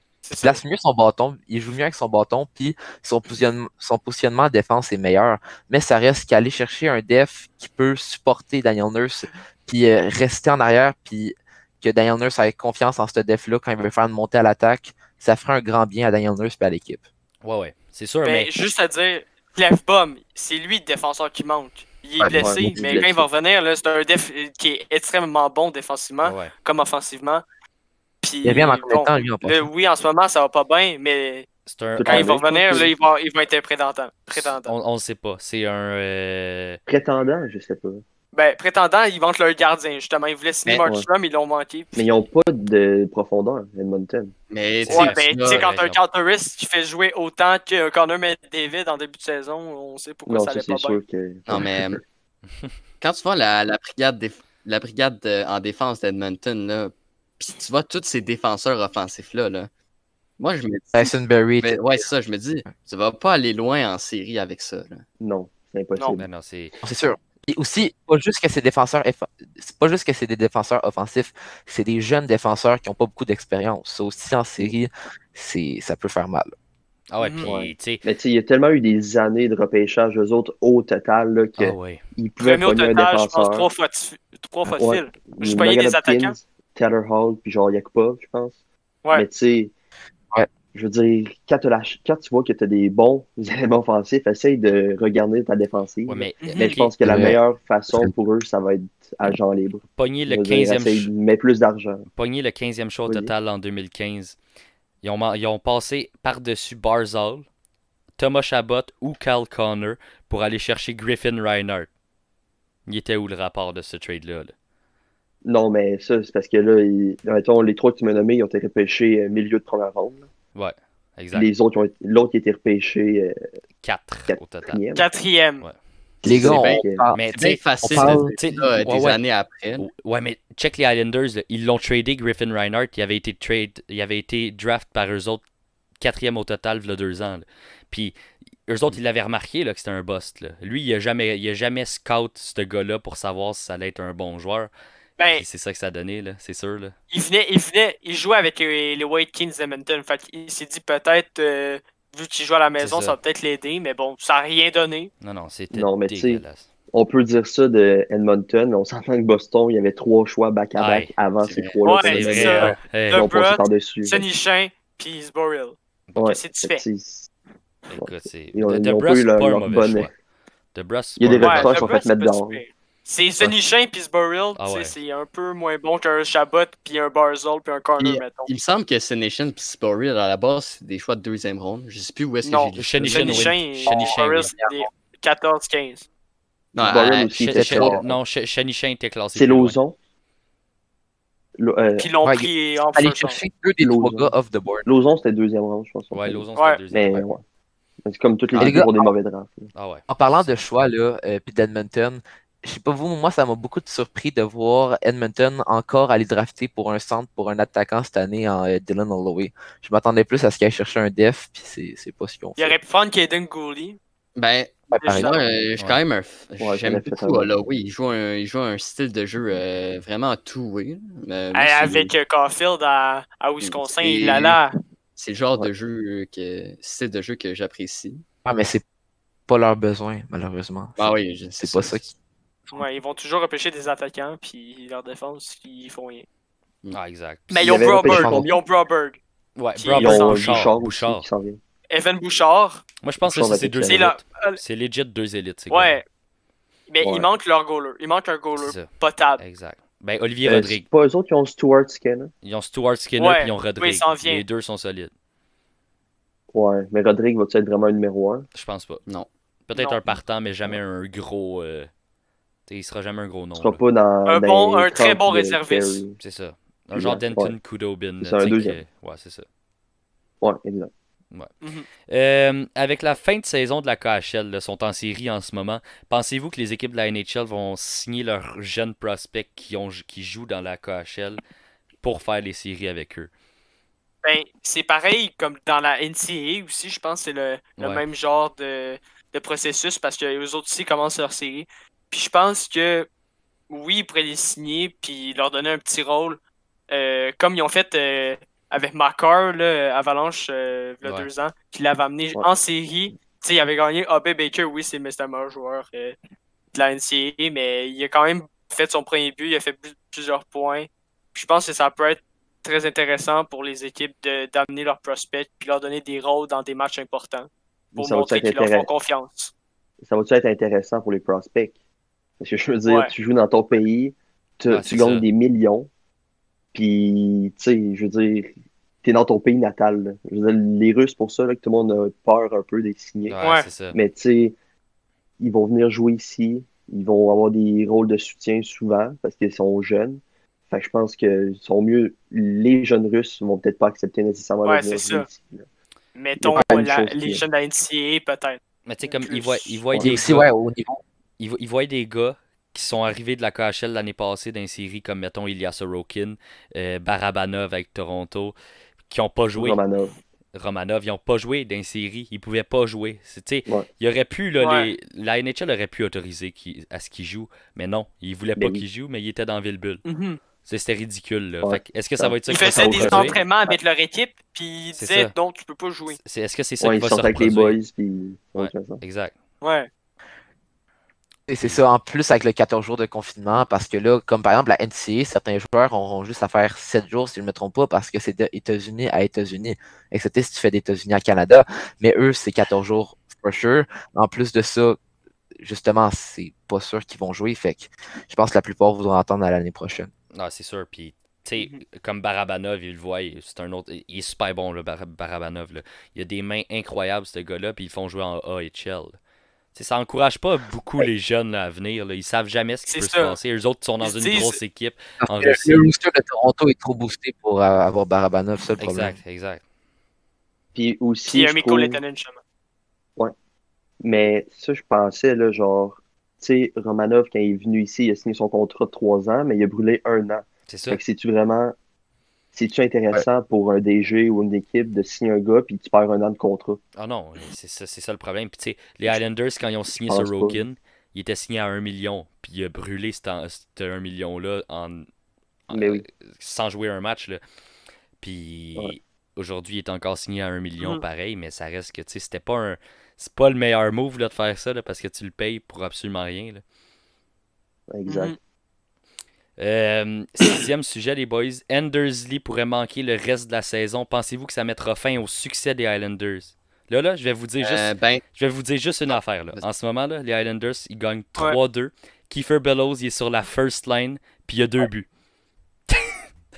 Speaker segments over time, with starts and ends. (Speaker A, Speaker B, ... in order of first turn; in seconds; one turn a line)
Speaker A: 0.2-0.6
Speaker B: 0.4-17.0
Speaker C: 17.4-18.5
Speaker A: 18.2-27.4
Speaker B: 22.2-22.8
Speaker D: 22.3-23.3
Speaker C: 26.2-26.5
Speaker A: 28.2-31.4
Speaker B: 28.4-29.7
Speaker C: 31.7-32.9
Speaker D: 32.0-32.9
Speaker A: 32.0-34.7
Speaker C: 34.3-36.8
Speaker D: 36.9-38.0
Speaker A: 38.3-42.0
Speaker D: 40.8-41.1
Speaker D: 41.9-44.3
Speaker E: 44.5-45.6
Speaker C: 44.8-46.0
Speaker A: 44.9-51.0
Speaker D: 50.3-51.8
Speaker E: 51.5-52.0
Speaker E: 53.0-59.7
Speaker E: 60.4-65.0
Speaker B: 60.9-62.1
Speaker D: 65.2-66.3
Speaker C: 66.2-66.7
Speaker B: 66.8-76.5
Speaker C: 77.1-78.0
Speaker A: 77.2-77.5
Speaker D: 77.4-83.7
Speaker C: 81.6-82.0
Speaker A: 82.4-86.3
Speaker D: 84.7-88.6
Speaker D: 89.1-89.7
Speaker D: 90.7-102.0
Speaker C: 96.1-97.3
Speaker A: 96.4-96.8
Speaker B: 97.0-97.4
Speaker C: 99.9-101.1
Speaker C: 102.1-104.4
Speaker D: 103.1-103.3
Speaker C: 105.0-107.5
Speaker C: 108.2-111.9
Speaker C: 112.9-114.5
Speaker D: 115.4-120.3
Speaker C: 120.5-121.5
Speaker D: 121.3-123.3
Speaker C: 123.8-124.8
Speaker D: 124.3-125.0
Speaker A: 125.0-125.6
Speaker B: 126.2-127.2
Speaker E: 126.2-129.9
Speaker D: 126.2-127.1
Speaker C: 127.1-128.9
Speaker B: 127.8-129.2
Speaker C: 129.8-135.4
Speaker C: 136.0-138.2
Speaker C: 138.7-144.7
Speaker A: 145.2-145.4
Speaker C: 145.3-146.9
Speaker A: 147.1-155.1
Speaker C: 152.8-153.2
Speaker C: 155.2-156.7
Speaker D: 155.7-156.4
Speaker D: 156.9-164.2
Speaker C: 160.8-161.1
Speaker E: 161.4-161.8
Speaker A: 161.8-166.8
Speaker C: 162.0-163.3
Speaker D: 166.2-167.3
Speaker C: 167.9-170.1
Speaker D: 167.9-170.1
Speaker C: 170.7-171.8
Speaker D: 171.2-172.6
Speaker A: 171.4-178.5
Speaker C: 174.6-174.9
Speaker E: 178.0-183.7
Speaker A: 182.4-186.1
Speaker C: 182.8-184.5
Speaker B: 184.6-184.8
Speaker E: 186.7-188.0
Speaker D: 186.8-188.2
Speaker C: 187.4-189.8
Speaker D: 189.3-189.9
Speaker D: 191.6-192.1
Speaker A: 192.0-193.4
Speaker B: 192.2-194.8
Speaker D: 193.8-194.3
Speaker D: 194.8-197.4
Speaker C: 196.1-197.2
Speaker A: 196.6-196.8
Speaker D: 198.0-199.7
Speaker E: 198.5-198.8
Speaker B: 198.5-199.1
Speaker C: 199.7-200.0
Speaker B: 200.1-212.8
Speaker A: 212.6-214.0
Speaker E: 214.3-222.1
Speaker B: 214.9-215.3
Speaker A: 214.9-215.4
Speaker D: 216.6-217.5
Speaker A: 221.5-224.7
Speaker E: 223.6-224.6
Speaker E: 225.2-228.2
Speaker B: 228.4-228.8
Speaker B: 229.5-232.1
Speaker E: 231.0-232.1
Speaker A: 232.7-236.2
Speaker C: 236.9-237.7
Speaker A: 237.5-239.2
Speaker D: 237.6-238.6
Speaker B: 238.1-238.5
Speaker C: 239.5-241.2
Speaker A: 239.8-240.6
Speaker D: 240.0-241.6
Speaker A: 241.9-242.8
Speaker C: 243.0-246.0
Speaker D: 243.2-244.1
Speaker A: 243.8-244.6
Speaker A: 245.7-246.0
Speaker A: 246.9-249.4
Speaker D: 247.0-247.3
Speaker C: 248.6-250.8
Speaker D: 250.4-252.3
Speaker C: 252.4-255.1
Speaker A: 253.2-254.4
Speaker D: 256.5-258.5
Speaker C: 258.5-259.0
Speaker C: 259.7-261.9
Speaker A: 259.7-260.0
Speaker C: 262.7-263.8
Speaker D: 263.6-266.2
Speaker A: 264.2-266.0
Speaker C: 266.2-269.4
Speaker D: 266.9-267.6
Speaker D: 268.2-268.8
Speaker D: 270.4-270.9
Speaker A: 271.6-271.9
Speaker C: 272.1-281.4
Speaker C: 282.0-283.3
Speaker A: 284.2-293.1
Speaker C: 287.8-288.0
Speaker A: 293.7-296.4
Speaker A: 296.9-306.1
Speaker C: 301.0-301.3
Speaker A: 306.7-319.5
Speaker D: 317.9-318.9
Speaker D: 320.0-321.7
Speaker D: 322.4-325.9
Speaker A: 322.9-323.1
Speaker C: 324.7-325.2
Speaker D: 326.7-328.5
Speaker D: 329.0-333.4
Speaker C: 333.3-333.9
Speaker A: 333.4-333.7
Speaker D: 333.9-334.5
Speaker D: 335.4-345.6
Speaker A: 344.6-345.2
Speaker A: 346.1-349.8
Speaker D: 346.4-347.4
Speaker B: 346.5-346.8
Speaker C: 348.9-350.5
Speaker B: 350.0-351.0
Speaker C: 351.4-358.5
Speaker C: 359.1-359.8
Speaker D: 359.6-360.1
Speaker C: 360.5-370.0
Speaker A: 364.6-364.9
Speaker D: 368.6-368.8
Speaker A: 370.0-370.4
Speaker C: 370.6-373.4
Speaker D: 371.6-373.5
Speaker A: 372.5-376.2
Speaker C: 374.9-375.3
Speaker C: 376.1-377.8
Speaker D: 376.8-379.0
Speaker C: 378.6-379.3
Speaker A: 379.6-379.9
Speaker B: 381.5-395.0
Speaker B: 395.6-400.1
Speaker C: 400.3-409.1
Speaker A: 401.6-401.8
Speaker C: 409.7-415.9
Speaker A: 412.9-413.4
Speaker A: 414.0-414.6
Speaker B: 415.2-419.2
Speaker C: 418.8-419.6
Speaker D: 420.7-422.0
Speaker A: 421.3-422.4
Speaker D: 424.0-431.7
Speaker C: 430.7-431.0
Speaker D: 432.5-436.8
Speaker C: 436.9-445.1
Speaker D: 440.0-440.6
Speaker C: 445.7-447.4
Speaker D: 445.7-446.0
Speaker C: 448.2-456.6
Speaker D: 457.9-458.3
Speaker A: 458.1-458.4
Speaker C: 459.6-475.1
Speaker E: 467.6-468.2
Speaker C: 475.9-476.1